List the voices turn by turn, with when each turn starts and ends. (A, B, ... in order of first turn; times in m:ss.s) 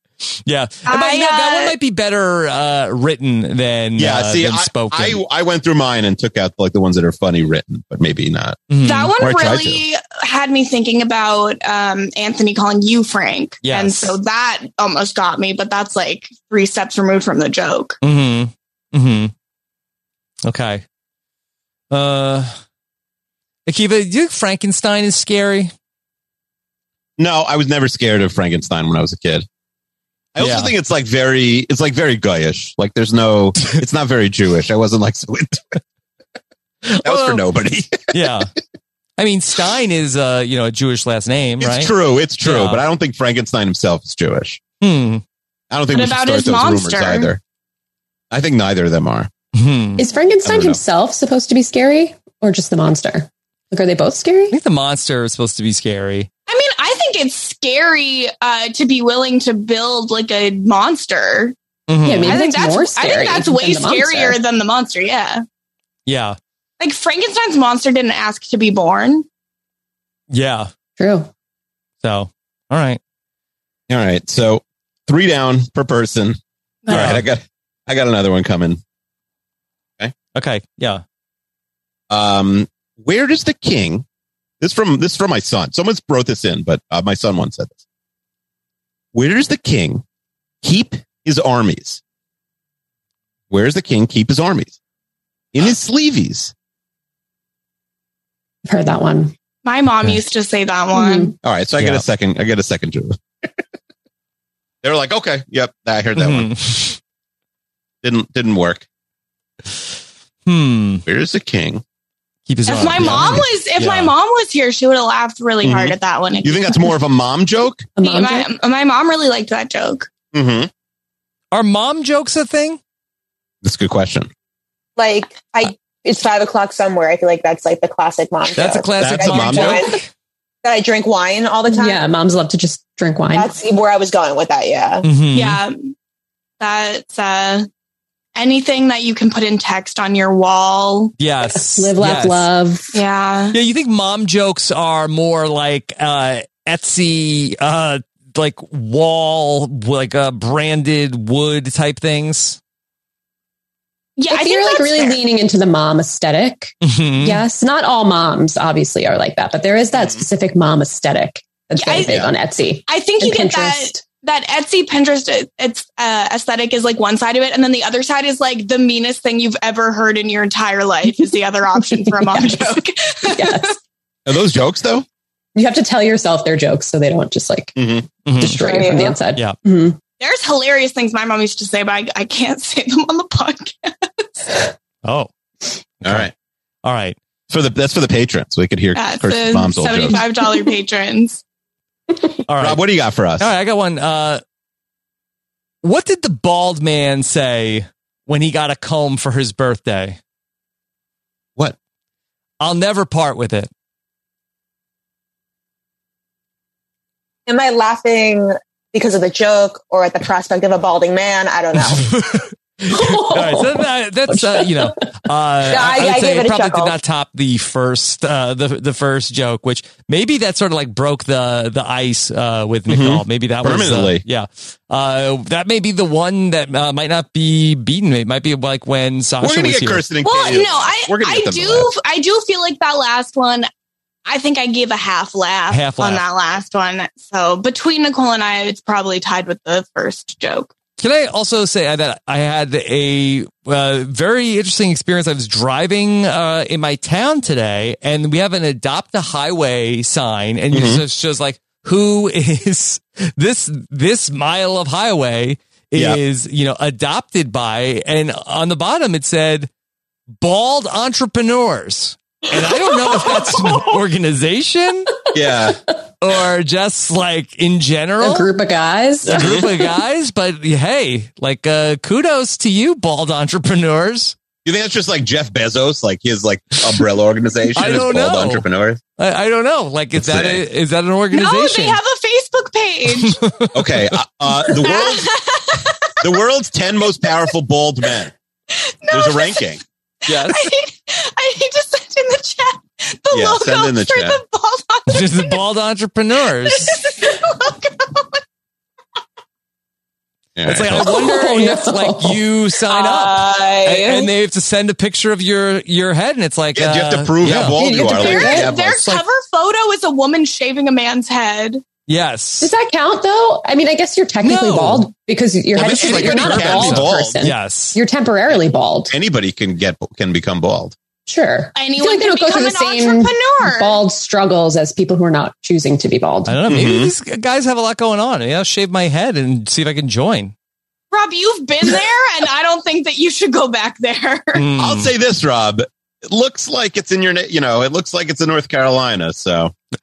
0:00.4-0:05.2 A
0:00.9-0:01.7 B
0:04.0-0:08.6 C
0:08.7-0:09.1 A
0:08.8-0:18.0 B
0:09.2-0:09.8 C
0:13.6-0:14.1 A
0:18.0-0:19.3 A
0:20.4-0:20.8 A
0:21.9-0:22.6 A
0:23.6-0:25.7 A
0:27.2-0:29.4 C
0:30.3-0:35.8 C
0:30.4-0:30.7 A
0:36.8-0:37.4 A
0:37.0-0:38.3 C
0:38.1-0:38.5 A
0:39.2-0:42.8 A
0:41.6-0:44.6 C
0:44.8-0:45.2 A
0:45.7-0:47.4 C
0:45.9-0:47.3 B
0:48.3-0:49.3 C
0:49.5-0:50.0 A
0:50.0-0:54.6 D
0:50.4-0:50.8 C
0:54.5-0:56.3 A
0:56.5-1:01.5 B
1:01.9-1:02.4 A
1:02.0-1:04.4 D
1:02.2-1:05.4 B
1:06.0-1:06.4 A
1:06.8-1:09.2 B
1:10.3-1:10.7 A
1:11.0-1:11.3 D
1:12.0-1:13.0 A
1:13.9-1:16.4 C
1:16.9-1:17.2 A
1:16.9-1:18.8 C
1:20.3-1:21.0 A
1:22.1-1:24.0 C
1:24.6-1:27.8 C
1:29.1-1:30.0 C
1:30.6-1:32.0 C
1:33.5-1:34.8 C
1:35.5-1:36.5 C
1:38.6-1:39.3 D
1:39.6-1:41.3 B
1:40.9-1:41.3 D
1:41.4-1:43.2 C
1:41.8-1:42.0 A
1:44.8-1:46.5 C
1:46.2-1:47.0 A
1:48.0-1:48.8 C
1:50.4-1:51.0 A
1:51.0-1:51.8 C
1:52.5-1:54.1 A
1:52.7-1:56.9 B
1:53.0-1:53.4 C
1:55.6-1:57.9 C
1:58.0-1:58.5 D
1:58.0-2:00.1 B
2:00.3-2:00.7 C
2:01.5-2:02.8 A
2:03.6-2:04.3 C
2:05.0-2:10.0 E
2:08.5-2:10.1 A
2:09.0-2:09.9 C
2:10.6-2:12.0 E
2:11.7-2:13.5 D
2:13.3-2:15.0 E
2:15.0-2:15.6 A
2:15.3-2:15.9 B
2:16.6-2:17.7 B
2:18.3-2:21.1 B
2:21.2-2:22.5 A
2:21.4-2:22.9 D
2:22.9-2:23.6 B
2:23.5-2:32.6 A
2:34.2-2:35.2 B
2:34.3-2:44.0 D
2:36.8-2:37.4 A
2:39.9-2:40.3 C
2:41.8-2:42.2 B
2:42.1-2:42.3 C
2:42.9-2:53.7 B
2:51.2-2:53.7 D
2:54.2-2:55.0 C
2:55.5-2:57.7 D
2:57.8-2:58.0 C
2:58.2-2:58.6 A
2:58.4-3:00.0 D
2:58.6-2:59.2 E
3:00.2-3:04.2 B
3:05.0-3:05.3 A
3:06.0-3:06.3 A
3:06.0-3:06.3 C
3:06.8-3:07.2 A
3:07.5-3:10.2 C
3:08.9-3:11.4 B
3:12.5-3:12.8 A
3:12.6-3:13.5 C
3:13.4-3:14.4 A
3:15.8-3:20.2 A
3:22.6-3:23.7 A
3:27.5-3:32.0 E
3:31.9-3:50.0 A
3:32.9-3:35.1 D
3:35.7-3:36.9 E
3:42.9-3:44.2 C
3:49.4-3:51.9 C
3:50.2-3:53.7 B
3:54.2-4:00.7 B
3:55.7-3:56.2 A
4:01.0-4:19.7 A
4:10.7-4:11.0 C
4:20.4-4:25.1 A
4:25.3-4:25.8 C
4:26.2-4:28.5 A
4:28.2-4:29.9 D
4:29.2-4:34.4 A
4:29.3-4:29.6 C
4:34.6-4:39.0 C
4:37.7-4:42.0 A
4:40.2-4:40.6 C
4:41.3-4:43.4 B
4:43.2-4:44.2 A
4:43.7-4:45.3 C
4:44.7-4:46.1 B
4:46.2-4:48.3 C
4:48.7-4:49.8 B
4:49.1-4:49.8 C
4:50.3-4:50.6 A
4:50.3-4:55.6 B
4:53.3-4:54.4 C
4:55.1-4:57.0 A
4:56.6-4:58.0 B
5:00.6-5:01.2 C
5:00.6-5:07.8 A
5:01.0-5:02.4 D
5:02.9-5:04.3 E
5:06.7-5:09.2 C
5:07.6-5:08.7 D
5:08.2-5:11.8 B
5:12.1-5:12.7 A
5:12.6-5:19.1 D
5:14.4-5:15.1 A
5:15.7-5:17.4 C
5:15.9-5:18.0 A
5:19.1-5:21.0 C
5:21.2-5:26.6 D
5:21.8-5:24.0 B
5:26.5-5:30.5 A
5:26.7-5:27.1 C
5:31.1-5:34.6 B
5:34.5-5:35.1 A
5:34.8-5:39.7 C